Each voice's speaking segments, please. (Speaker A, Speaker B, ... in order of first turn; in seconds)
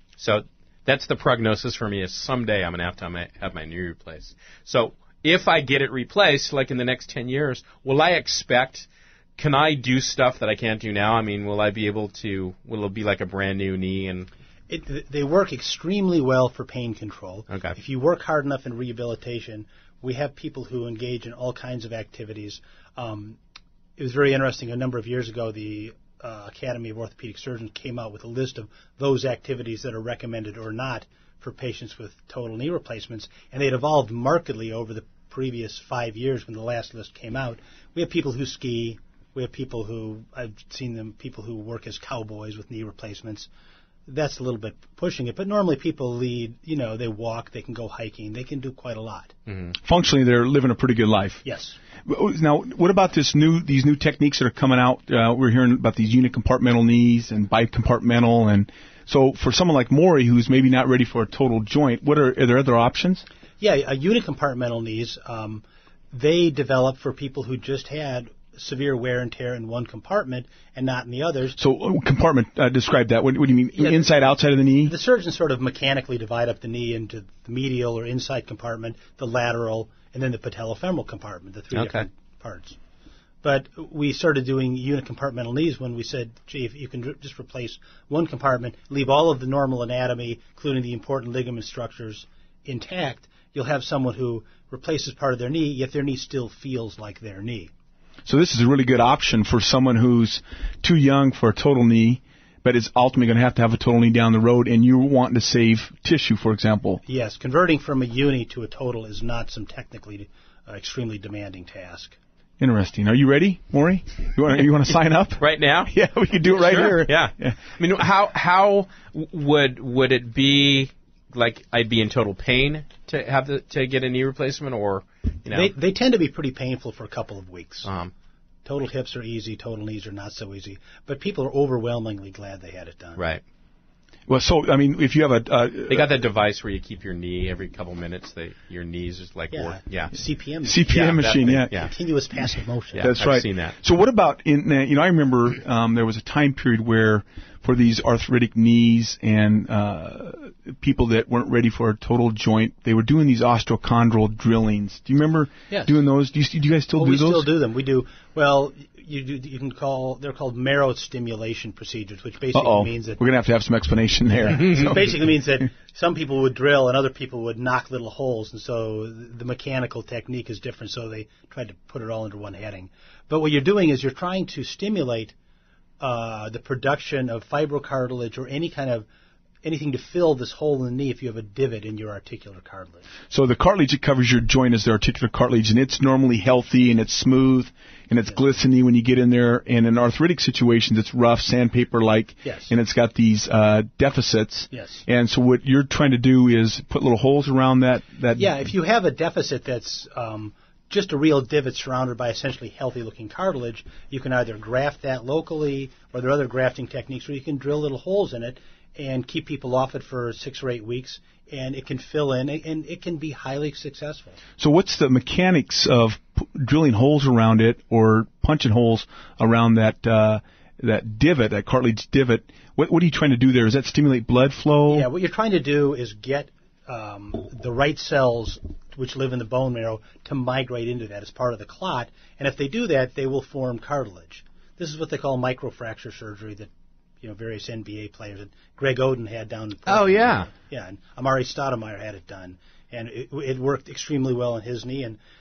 Speaker A: 0.2-14.3, 17.5-17.8, 49.5-49.7, 81.7-82.1, 115.4-115.9, 116.5-125.7, 127.8-128.1, 133.2-133.4, 135.9-140.2, 140.9-141.9, 142.9-143.8, 239.9-240.5
Speaker B: 14.7-23.4, 24.0-43.5, 44.1-49.3, 51.4-51.8, 63.6-71.6, 73.8-74.2, 74.8-82.8, 83.4-97.7, 107.1-112.2, 125.5-127.9, 128.7-133.2, 139.5-143.1, 155.7-156.0, 157.0-163.2, 164.3-175.3, 176.0-179.1, 179.6-183.1, 192.4-192.7, 194.7-195.1, 198.3-214.4, 224.9-236.7, 237.2-245.2
Speaker C: 49.8-51.4, 52.1-63.2, 71.6-75.0, 98.2-107.0, 112.6-117.6, 134.3-136.2, 140.7-141.7, 143.0-157.5, 162.5-165.3, 183.3-198.6, 214.6-225.1